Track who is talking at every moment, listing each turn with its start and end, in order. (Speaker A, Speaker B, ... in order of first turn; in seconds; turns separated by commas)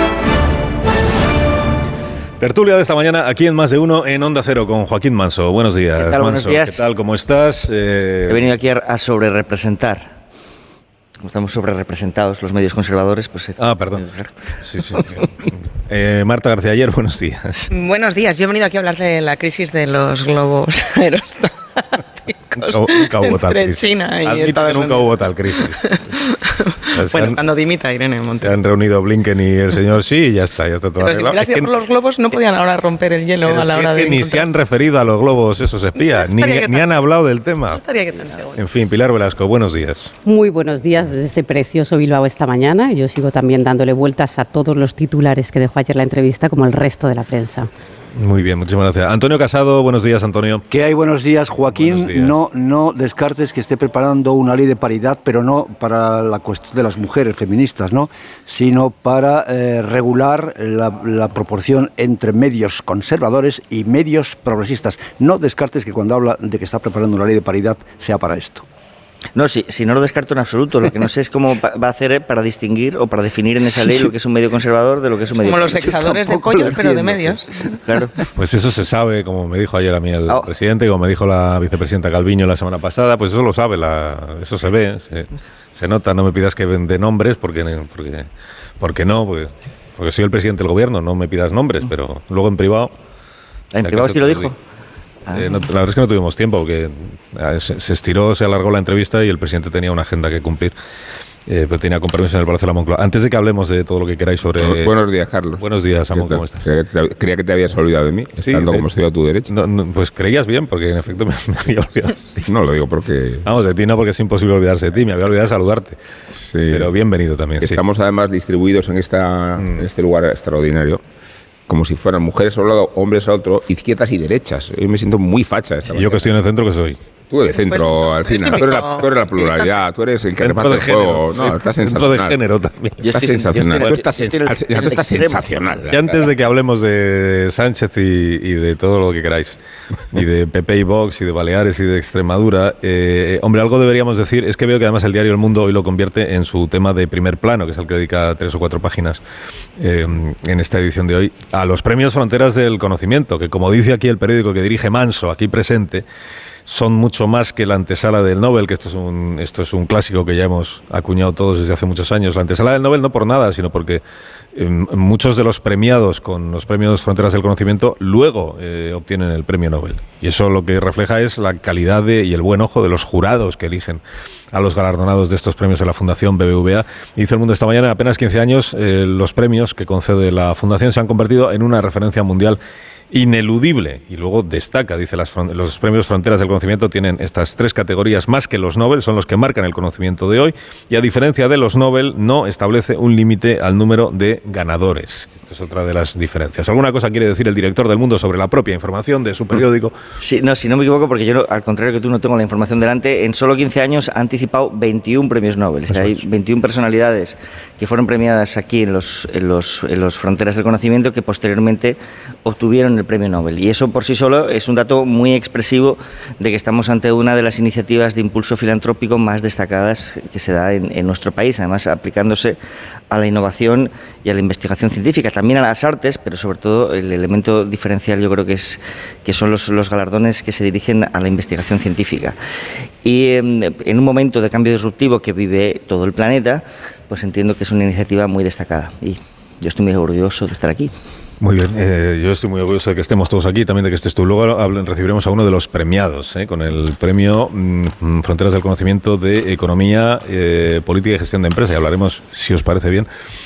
Speaker A: 2.4-8.4, Speaker B: 6.0-6.8, Speaker B: 8.3-10.1, Speaker B: 11.2-14.3, Speaker A: 13.6-14.1, Speaker A: 14.6-17.7, Speaker B: 14.9-15.2, Speaker C: 17.7-28.5, Speaker A: 22.6-25.8, Speaker A: 26.9-27.4, Speaker A: 28.4-31.7, Speaker C: 31.0-34.5, Speaker A: 33.5-37.8, Speaker C: 36.1-36.9, Speaker C: 37.7-38.5, Speaker A: 38.5-40.1, Speaker D: 40.2-47.7, Speaker A: 48.1-50.6, Speaker E: 50.7-68.7, Speaker A: 51.6-52.3, Speaker B: 69.3-78.2, Speaker C: 75.4-77.8, Speaker A: 78.3-88.3, Speaker A: 88.8-92.9, Speaker B: 93.7-94.5, Speaker A: 93.8-94.5, Speaker B: 95.3-95.6, Speaker A: 95.3-100.7, Speaker A: 101.5-104.9, Speaker F: 104.6-109.5, Speaker A: 105.6-106.6, Speaker A: 108.4-108.9, Speaker A: 109.5-112.5, Speaker F: 112.4-113.5, Speaker A: 113.4-116.0, Speaker F: 116.3-116.9, Speaker A: 116.7-117.8, Speaker F: 117.6-121.0, Speaker F: 121.7-126.3, Speaker A: 125.9-127.0, Speaker F: 127.3-132.4, Speaker C: 127.6-129.5, Speaker A: 130.4-134.0, Speaker B: 133.0-135.4, Speaker F: 133.1-136.3, Speaker A: 135.9-139.6, Speaker A: 140.1-149.2, Speaker A: 149.8-156.0, Speaker A: 156.7-164.0, Speaker A: 164.5-174.0, Speaker A: 174.5-182.6, Speaker A: 183.1-199.9, Speaker B: 200.2-222.6, Speaker A: 205.9-206.2, Speaker B: 223.1-232.4, Speaker B: 233.0-240.9, Speaker A: 241.4-253.1